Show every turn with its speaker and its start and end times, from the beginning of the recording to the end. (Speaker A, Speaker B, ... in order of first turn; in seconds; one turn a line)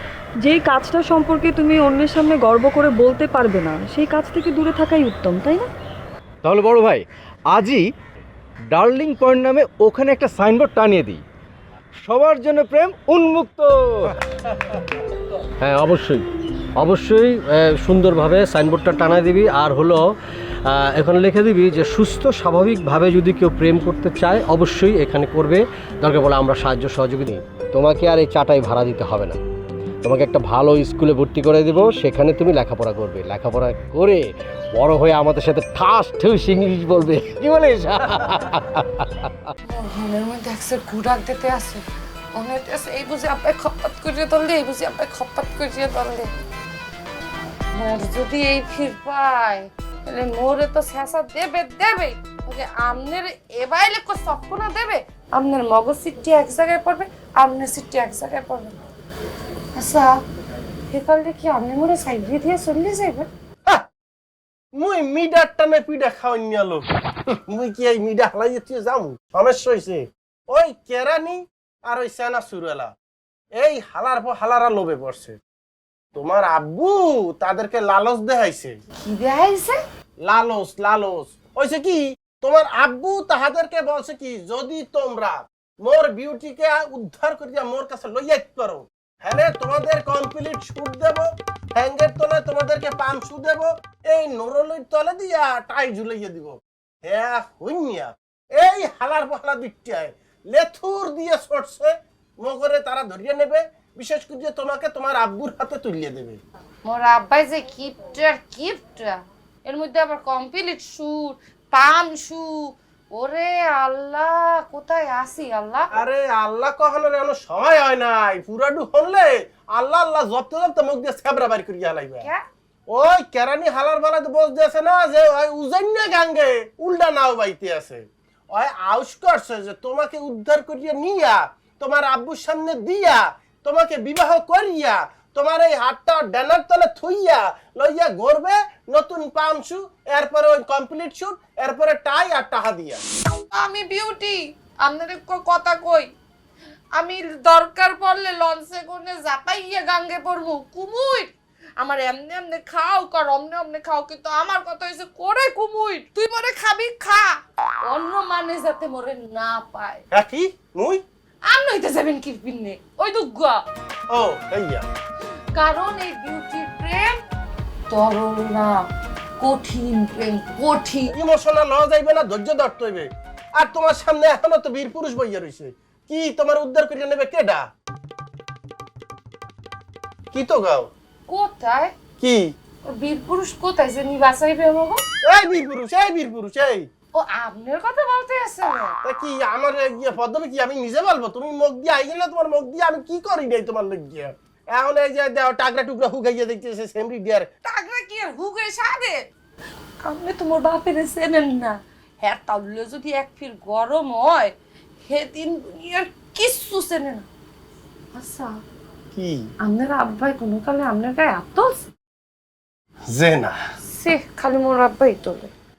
Speaker A: 0.4-5.7
Speaker B: 6.4-7.9
Speaker B: 8.7-11.2
Speaker B: 12.0-14.1
Speaker C: 15.6-16.2
Speaker C: 16.8-20.0
Speaker C: 20.7-29.4
Speaker C: 30.0-34.2
Speaker C: 34.8-39.3
Speaker D: 39.7-41.8
Speaker D: 42.4-46.3
Speaker D: 47.7-58.8
Speaker D: 59.7-60.1
Speaker D: 60.9-63.3
Speaker E: 64.7-66.8
Speaker E: 67.5-72.9
Speaker E: 73.5-75.4
Speaker E: 76.2-78.8
Speaker D: 79.0-79.8
Speaker E: 80.2-106.4
Speaker D: 106.8-112.5
Speaker D: 113.1-115.9
Speaker E: 115.9-122.3
Speaker E: 122.9-143.0
Speaker D: 143.5-146.1
Speaker D: 147.0-160.0
Speaker E: 160.1-161.0
Speaker D: 161.5-163.6
Speaker E: 164.1-164.8
Speaker D: 165.5-167.2
Speaker D: 167.9-168.8
Speaker D: 169.4-171.1
Speaker E: 171.1-177.7
Speaker E: 180.3-180.9
Speaker D: 181.3-181.9
Speaker E: 182.2-182.5
Speaker D: 182.9-185.0
Speaker E: 185.2-186.8
Speaker D: 187.1-188.9
Speaker E: 189.0-197.5
Speaker D: 197.6-199.2
Speaker D: 200.0-204.5
Speaker D: 205.1-207.2
Speaker D: 208.1-208.5
Speaker E: 209.2-209.4
Speaker D: 209.6-211.8
Speaker E: 213.1-213.5
Speaker D: 213.8-215.5